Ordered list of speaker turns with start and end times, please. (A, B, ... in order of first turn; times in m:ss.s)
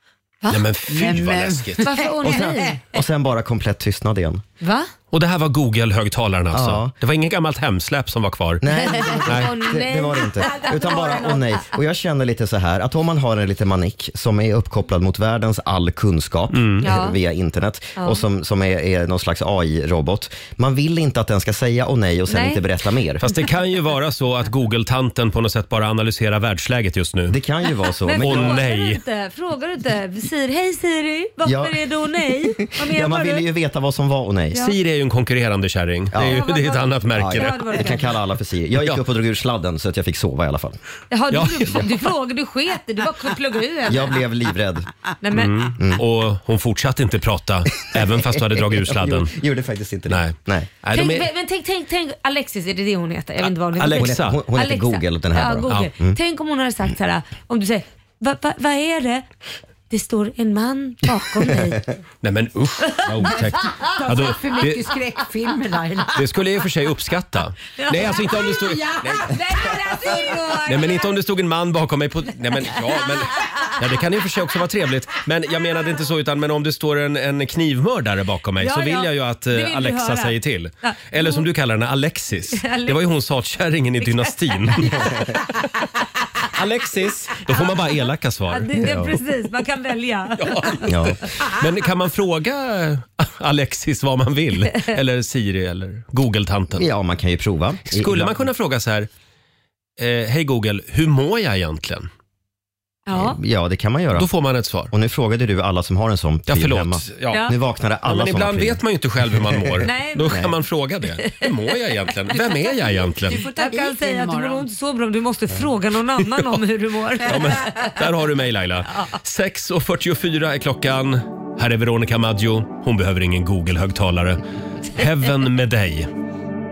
0:00.5-0:01.9 A
0:00.9-0:02.8 B
0:01.8-0:02.7 C
0:02.2-0:04.4 D
0:04.6-0:04.9 C
0:05.1-0:08.6 A
0:06.5-0:06.9 D
0:08.6-0:23.2 D
0:08.7-0:11.7 C
0:09.3-0:09.5 A
0:16.5-0:16.9 A
0:16.8-0:17.2 C
0:18.0-0:18.2 C
0:22.3-0:22.6 C
0:23.2-0:27.4 A
0:27.3-0:28.6 D
0:28.0-0:33.4 C
0:28.2-0:29.0 A
0:31.4-0:34.6 D
0:34.6-0:37.9 A
0:36.1-0:36.4 D
0:36.2-0:38.1 C
0:37.1-0:40.8 D
0:41.1-0:44.2 C
0:41.3-0:41.9 A
0:43.9-0:44.9 D
0:45.2-0:45.7 C
0:45.3-0:49.3 A
0:45.8-0:46.0 D
0:47.8-0:50.7 D
0:50.1-0:51.3 A
0:50.9-0:59.2 C
0:53.8-0:54.4 A
0:53.8-0:56.2 D
0:59.9-1:01.9 C
1:01.4-1:01.8 D
1:02.2-1:04.9 A
1:02.9-1:03.7 C
1:03.3-1:06.2 B
1:06.2-1:09.3 A
1:07.8-1:08.6 C
1:08.0-1:10.6 B
1:09.2-1:11.1 C
1:10.7-1:25.5 A
1:18.6-1:21.4 C
1:22.5-1:23.0 C
1:24.0-1:25.1 C
1:26.5-1:28.8 A
1:28.5-1:30.8 C
1:28.8-1:29.1 D
1:30.4-1:36.9 A
1:30.9-1:31.2 D
1:36.8-1:38.4 D
1:37.9-1:39.1 A
1:40.0-1:42.1 A
1:43.1-1:43.4 C
1:43.1-1:44.3 D
1:44.1-1:44.9 A
1:44.9-1:50.5 D
1:46.5-1:47.5 A
1:48.0-1:53.4 A
1:49.8-1:50.4 C
1:52.3-1:57.9 C
1:53.3-1:54.6 B
1:57.2-2:04.4 A
2:04.9-2:06.1 A